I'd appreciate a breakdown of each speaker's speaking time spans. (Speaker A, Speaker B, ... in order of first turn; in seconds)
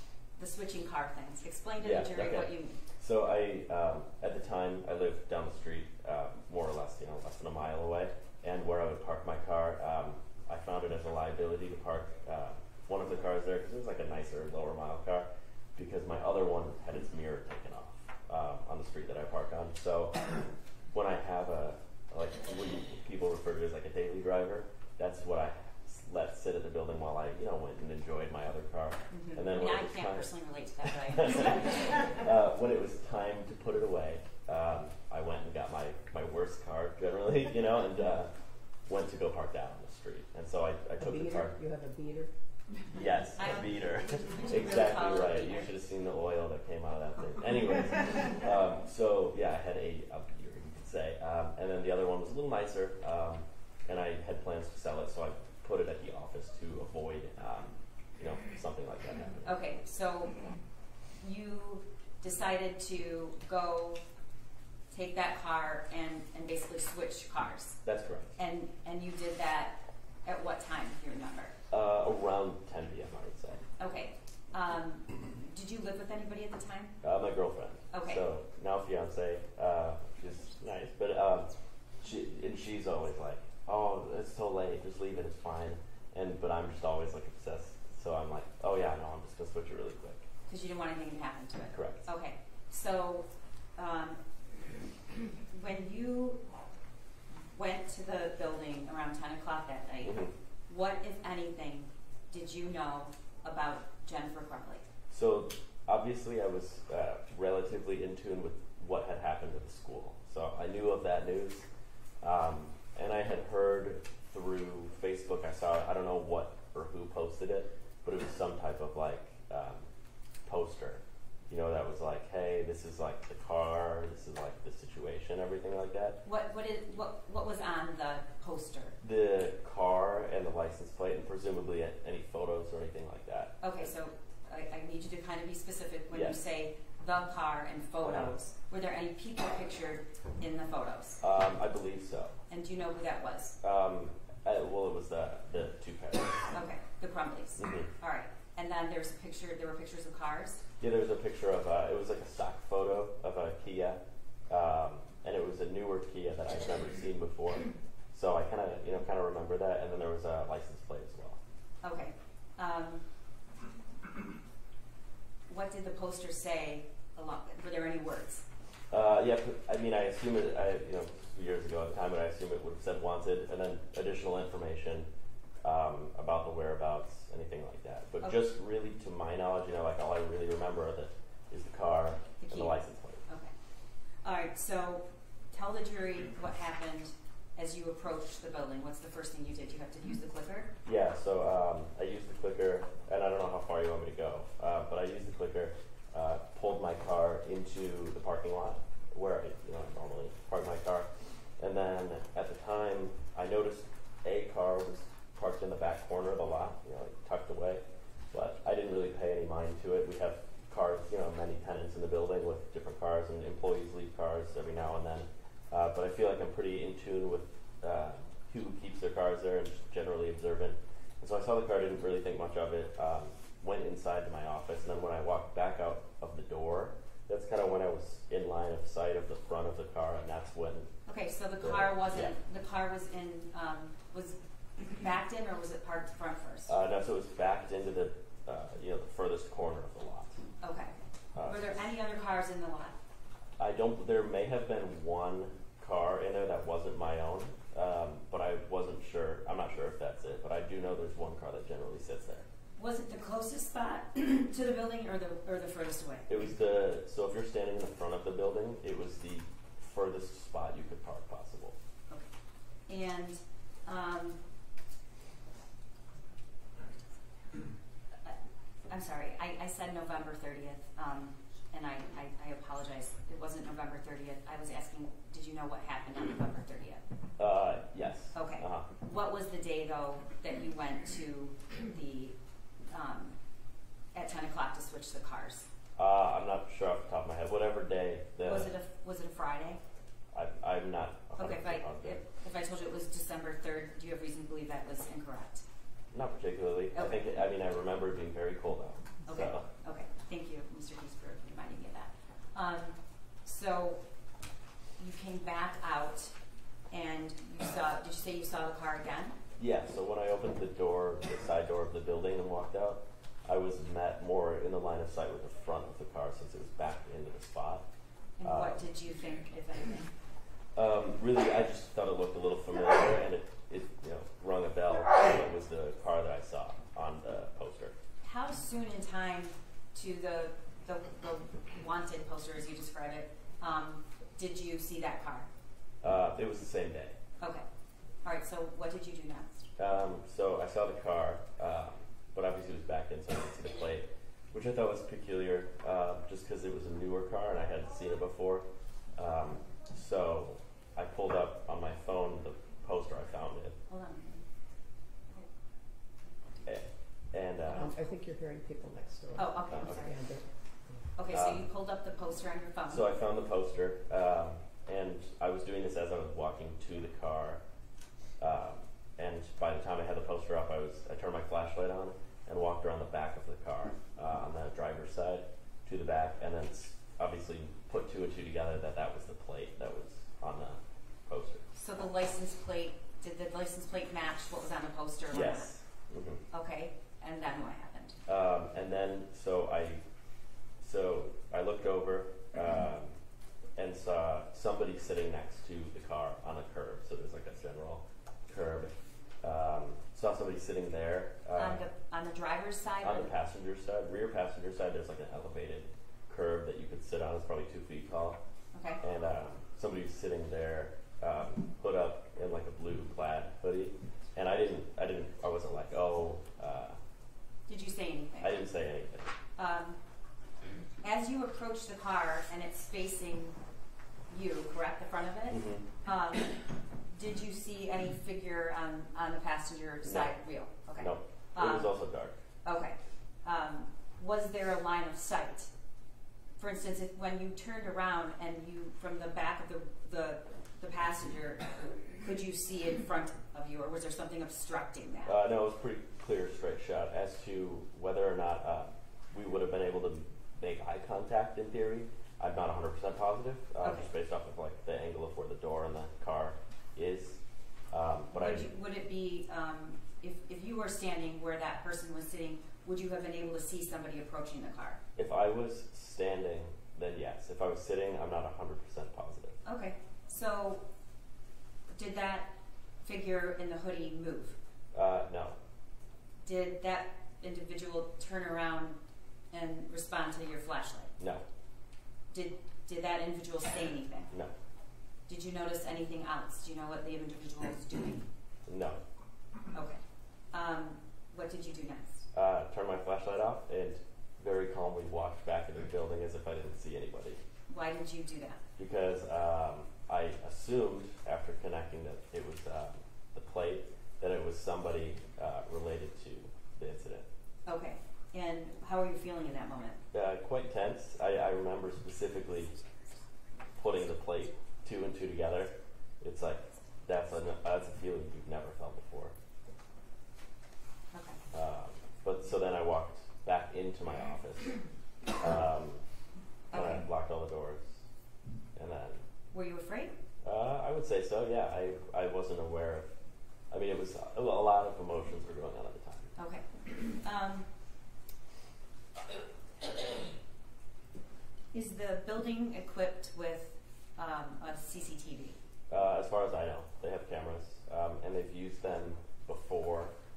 Speaker A: 0.4-2.8, 29.1-32.1, 43.4-45.7, 59.4-60.4, 61.2-64.0, 64.9-67.8, 68.4-71.5, 73.8-76.9, 77.9-78.2, 90.5-94.2, 95.5-96.4, 97.5-104.8, 126.2-128.9, 133.6-141.2, 142.5-143.6, 146.5-150.6, 161.8-163.0, 165.5-168.4, 182.4-183.5, 184.2-190.7, 231.1-236.7, 240.6-243.0, 252.8-256.3, 262.9-264.4, 268.9-277.0, 278.3-282.3, 282.9-283.4, 284.1-285.7, 288.4-289.8, 291.4-295.6, 299.2-304.0, 305.0-306.3, 306.9-309.4, 318.4-320.0, 328.2-335.5, 338.2-339.7, 353.9-354.4, 359.4-360.1, 361.1-363.1, 381.7-385.7, 386.5-388.2, 401.5-403.3, 408.7-409.0, 417.7-418.5, 419.6-420.0, 421.0-423.6, 424.3-431.9, 432.6-435.7, 436.6-445.3, 453.8-454.1, 458.3-465.0, 469.6-470.8, 471.9-474.6, 476.4-479.0, 479.5-481.1, 482.3-484.3, 485.3-488.2, 489.7-490.0, 490.5-492.2, 497.7-498.6, 507.7-510.0, 521.1-521.4, 526.7-527.0, 529.5-530.1, 536.4-537.7, 541.7-545.5
Speaker B: 1.8-38.3, 38.8-41.5, 42.9-59.6, 67.8-68.3, 71.7-73.6, 77.0-81.5, 82.0-90.3, 91.7-92.0, 100.0-100.3, 105.1-111.7, 112.2-119.9, 120.4-126.2, 129.0-133.9, 136.1-136.4, 138.0-138.3, 141.2-142.4, 143.6-146.5, 147.6-147.9, 150.8-161.4, 168.9-175.1, 175.6-183.2, 190.8-201.1, 201.6-230.9, 231.6-232.3, 236.7-240.4, 241.3-241.9, 243.6-252.5, 256.3-261.8, 277.4-278.9, 285.9-288.7, 290.3-292.2, 296.1-299.6, 309.6-317.8, 318.4-318.8, 320.7-327.9, 336.0-337.1, 339.8-348.6, 349.1-353.8, 356.6-357.9, 361.3-361.6, 362.9-367.6, 368.4-381.6, 385.3-386.4, 388.3-390.0, 390.8-393.1, 393.8-401.8, 403.0-408.4, 409.0-417.0, 418.4-419.3, 425.5-425.8, 430.0-430.3, 431.0-432.4, 445.2-457.4, 457.9-458.7, 465.1-469.6, 474.9-475.6, 481.2-481.4, 488.6-489.0, 492.3-497.4, 498.8-507.3, 510.1-512.8, 513.7-519.3, 521.5-524.8, 525.3-526.0, 526.7-528.0, 528.7-529.2, 530.4-533.1, 533.7-536.3, 545.9-550.1
Speaker C: 41.0-42.3, 357.7-361.0